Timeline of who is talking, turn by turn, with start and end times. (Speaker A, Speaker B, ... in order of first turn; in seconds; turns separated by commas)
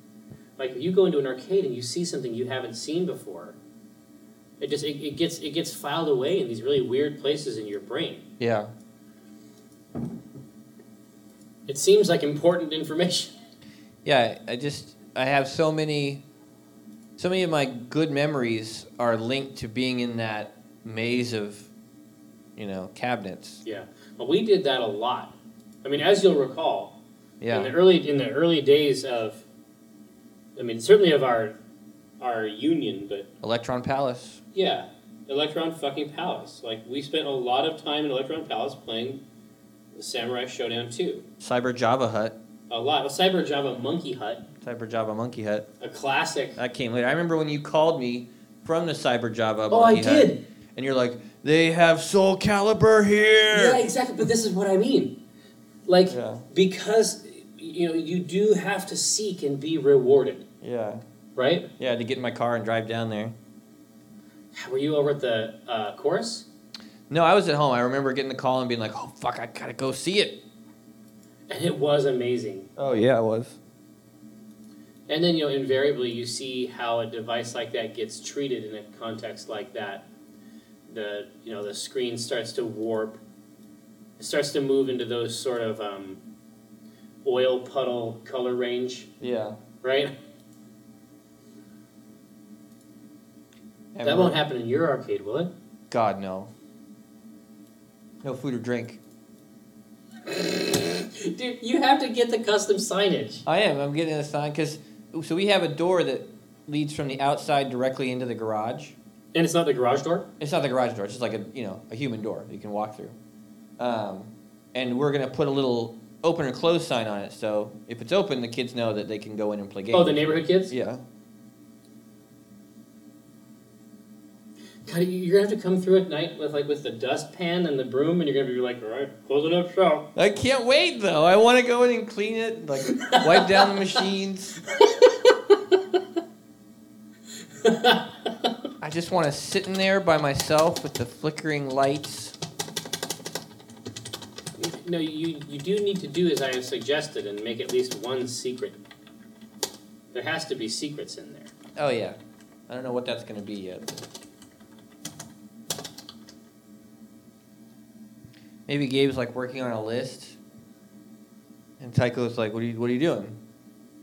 Speaker A: 0.6-3.6, Speaker A: 4.6-8.3, Speaker B: 8.4-8.7, Speaker A: 11.7-13.3, Speaker B: 14.1-16.2, Speaker B: 17.2-21.7, Speaker B: 22.6-23.6, Speaker A: 23.6-27.0, Speaker B: 27.4-27.7, Speaker A: 27.5-29.4, Speaker A: 30.6-31.6, Speaker A: 32.2-33.3, Speaker B: 33.4-34.4, Speaker A: 34.5-39.2, Speaker A: 40.0-41.2, Speaker B: 41.4-42.4, Speaker A: 42.7-44.5, Speaker B: 44.6-45.7, Speaker A: 45.8-46.6, Speaker B: 46.6-53.8, Speaker A: 49.7-50.4, Speaker A: 53.5-55.2, Speaker A: 55.9-60.5, Speaker B: 56.1-56.5, Speaker B: 60.6-61.0, Speaker A: 61.4-61.7, Speaker B: 61.8-63.4, Speaker A: 64.5-66.5, Speaker B: 67.1-70.4, Speaker A: 71.5-72.7, Speaker B: 72.8-73.6, Speaker A: 75.1-80.0, Speaker A: 80.9-83.2, Speaker A: 84.2-86.2, Speaker A: 87.2-89.1, Speaker B: 89.2-89.6, Speaker A: 89.8-90.1, Speaker B: 93.9-94.4, Speaker A: 94.0-95.5, Speaker B: 95.9-96.5, Speaker B: 98.2-99.0, Speaker A: 100.3-103.4, Speaker B: 103.5-109.0, Speaker A: 109.3-110.3, Speaker B: 110.4-113.2, Speaker B: 113.8-121.0, Speaker A: 119.9-120.7, Speaker A: 124.9-130.1, Speaker B: 130.2-134.6, Speaker A: 132.9-133.7, Speaker A: 134.8-135.6, Speaker A: 137.6-138.1, Speaker B: 138.8-142.4, Speaker A: 144.6-148.8, Speaker A: 150.1-151.5, Speaker B: 151.8-152.2, Speaker B: 152.7-154.1, Speaker B: 158.7-160.4, Speaker B: 161.8-163.4